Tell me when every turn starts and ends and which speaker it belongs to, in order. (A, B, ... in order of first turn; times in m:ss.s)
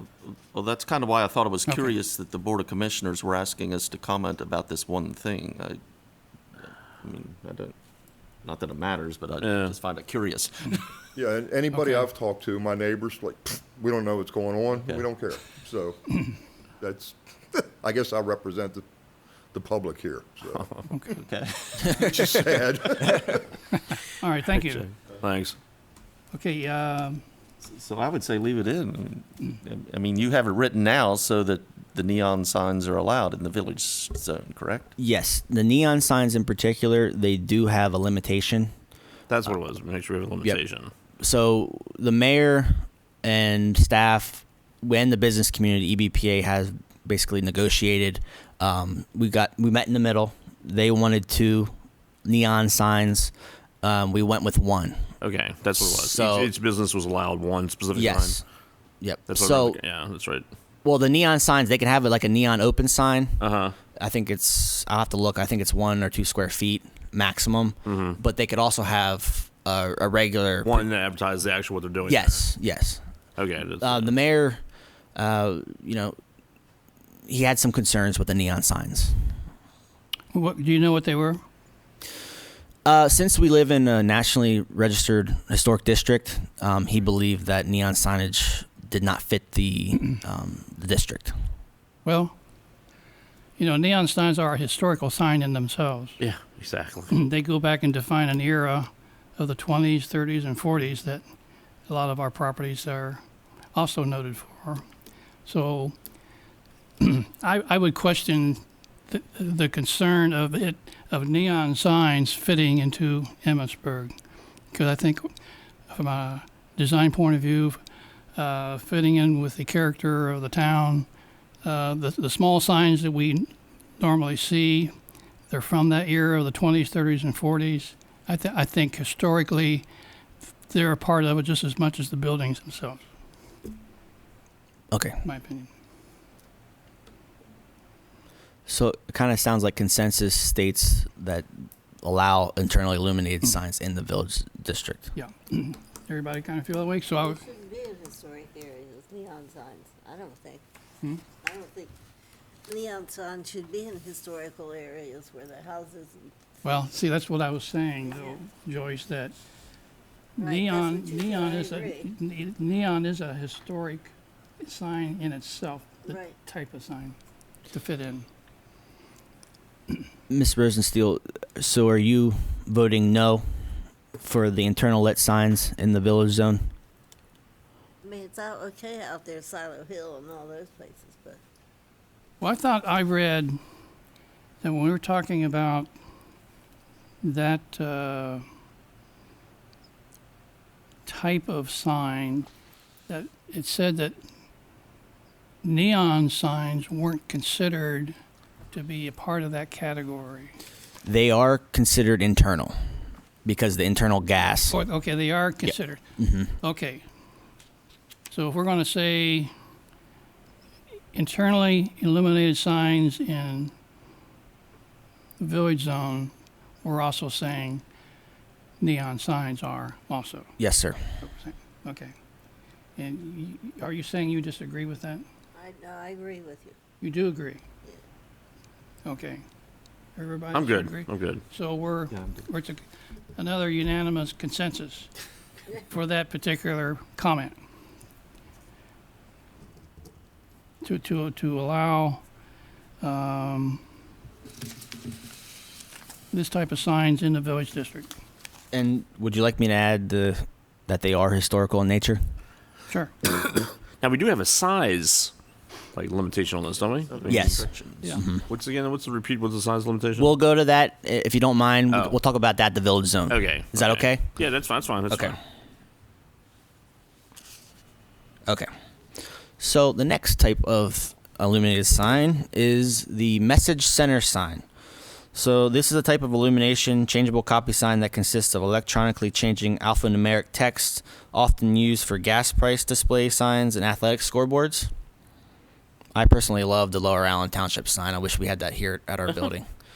0:00.5-0:05.8 A
0:07.0-0:07.7 A
0:08.4-0:10.9 A
0:09.4-0:09.8 B
0:11.2-0:16.2 C
0:11.7-0:12.0 D
0:16.8-0:18.8 C
0:19.5-0:20.7 C
0:20.6-0:20.9 B
0:20.9-0:21.2 D
0:21.1-0:22.0 A
0:21.9-0:23.5 C
0:23.7-0:24.9 D
0:24.5-0:25.6 B
0:26.3-0:27.2 D
0:27.6-0:34.9 A
0:35.0-0:38.7 E
0:39.3-0:40.9 B
0:41.2-0:51.7 E
0:52.2-0:55.0 E
0:55.2-0:58.4 B
0:55.8-0:56.5 E
0:57.9-0:58.4 E
0:59.0-0:59.8 E
0:59.3-1:00.5 B
1:00.8-1:03.4 E
1:03.4-1:03.8 B
1:04.0-1:10.9 E
1:07.9-1:08.2 B
1:10.6-1:12.4 B
1:12.1-1:13.0 E
1:13.4-1:14.1 B
1:13.8-1:14.6 E
1:15.2-1:16.2 E
1:17.3-1:19.2 E
1:20.3-1:21.4 D
1:22.8-1:31.3 E
1:32.0-1:32.3 D
1:33.6-1:36.2 D
1:36.2-1:37.1 B
1:37.1-1:41.2 D
1:41.9-1:43.2 D
1:43.7-1:44.8 D
1:45.4-1:46.0 D
1:47.0-1:54.1 D
1:54.7-1:55.3 D
1:55.9-1:57.8 D
1:58.4-2:01.1 D
2:01.6-2:04.9 D
2:05.5-2:09.9 D
2:10.7-2:13.0 D
2:14.9-2:15.2 E
2:15.2-2:15.7 D
2:18.7-2:21.5 E
2:22.0-2:25.1 E
2:25.2-2:27.4 D
2:27.1-2:30.6 F
2:31.3-2:32.0 F
2:32.7-2:36.3 F
2:36.6-2:39.3 D
2:38.1-2:38.4 F
2:40.4-2:47.2 D
2:40.4-2:42.1 F
2:46.0-2:46.4 F
2:47.7-2:48.3 D
2:50.3-2:53.4 E
2:54.2-2:56.6 E
2:58.0-3:01.4 F
3:02.4-3:03.6 D
3:04.6-3:05.9 D
3:07.2-3:08.4 D
3:11.1-3:12.5 D
3:13.1-3:14.2 D
3:15.6-3:18.2 D
3:18.7-3:20.6 D
3:21.0-3:22.8 E
3:23.4-3:24.8 E
3:24.7-3:26.0 D
3:25.7-3:26.5 E
3:26.6-3:27.0 D
3:28.3-3:29.5 D
3:31.1-3:33.7 D
3:35.4-3:37.8 D
3:38.8-3:40.5 D
3:40.6-3:41.0 E
3:41.2-3:42.1 D
3:43.0-3:45.2 D
3:45.6-3:46.8 F
3:47.0-3:47.6 D
3:49.0-3:49.4 D
3:50.2-3:52.8 D
3:50.5-3:51.4 B
3:53.4-3:55.1 D
3:55.9-3:57.6 D
4:00.8-4:02.2 D
4:03.0-4:03.8 D
4:06.3-4:08.1 D
4:08.7-4:12.2 E
4:14.0-4:15.3 B
4:15.9-4:17.6 B
4:17.1-4:18.2 A
4:17.3-4:17.6 E
4:18.2-4:18.4 E
4:18.4-4:20.3 B
4:20.2-4:24.4 E
4:21.9-4:22.2 B
4:23.3-4:25.4 B
4:25.1-4:25.4 E
4:29.6-4:34.6 E
4:35.3-4:44.9 E
4:46.2-4:49.7 E